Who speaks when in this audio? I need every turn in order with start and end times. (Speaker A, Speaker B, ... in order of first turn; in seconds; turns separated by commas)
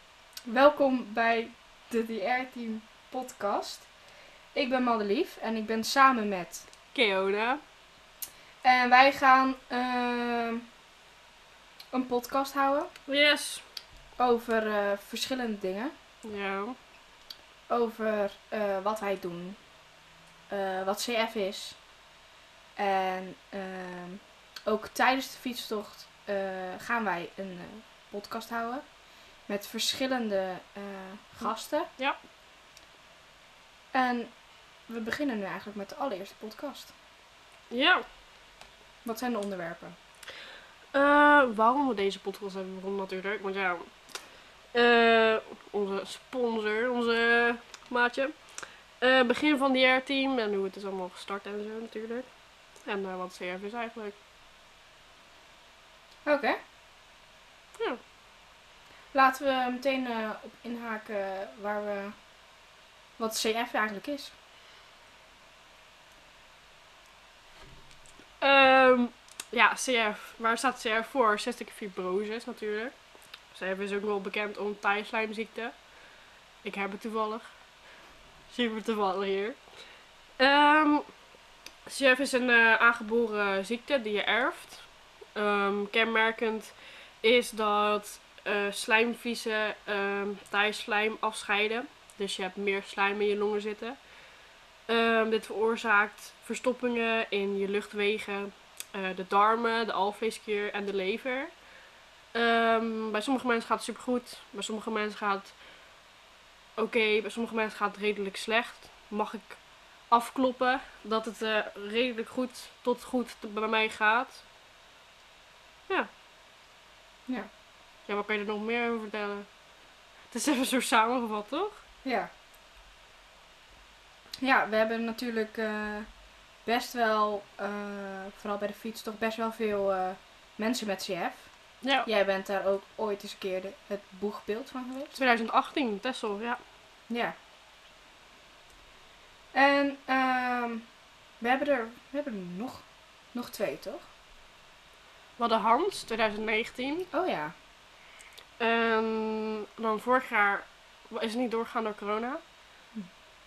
Speaker A: 0.5-3.9, Speaker A: 4.5-6.7, Speaker B: 6.9-7.6, Speaker A: 8.6-10.6, Speaker A: 11.9-12.9, Speaker B: 13.1-13.6, Speaker A: 14.2-15.9, Speaker B: 16.2-16.8, Speaker A: 17.7-19.6, Speaker A: 20.5-21.8, Speaker A: 22.8-28.9, Speaker A: 29.5-31.9, Speaker A: 33.9-34.3, Speaker A: 34.9-36.9, Speaker B: 37.7-38.0, Speaker A: 39.0-40.0, Speaker B: 40.9-43.9, Speaker B: 44.7-54.1, Speaker A: 56.2-56.6, Speaker A: 59.1-62.2, Speaker A: 63.2-64.3, Speaker B: 68.4-73.0, Speaker B: 73.5-75.8, Speaker B: 76.6-77.5, Speaker B: 78.5-79.6, Speaker B: 80.4-81.0, Speaker B: 81.8-94.0, Speaker B: 94.9-101.6, Speaker B: 102.3-105.6, Speaker B: 106.8-114.4, Speaker B: 118.0-119.5, Speaker B: 120.3-121.8, Speaker A: 122.0-122.3, Speaker A: 124.4-126.1, Speaker A: 126.6-135.2, Speaker B: 131.8-132.1, Speaker B: 135.1-136.6, Speaker A: 137.1-137.3, Speaker A: 139.5-140.9, Speaker A: 141.4-144.1, Speaker B: 145.4-147.1, Speaker A: 147.1-147.5, Speaker B: 148.6-152.4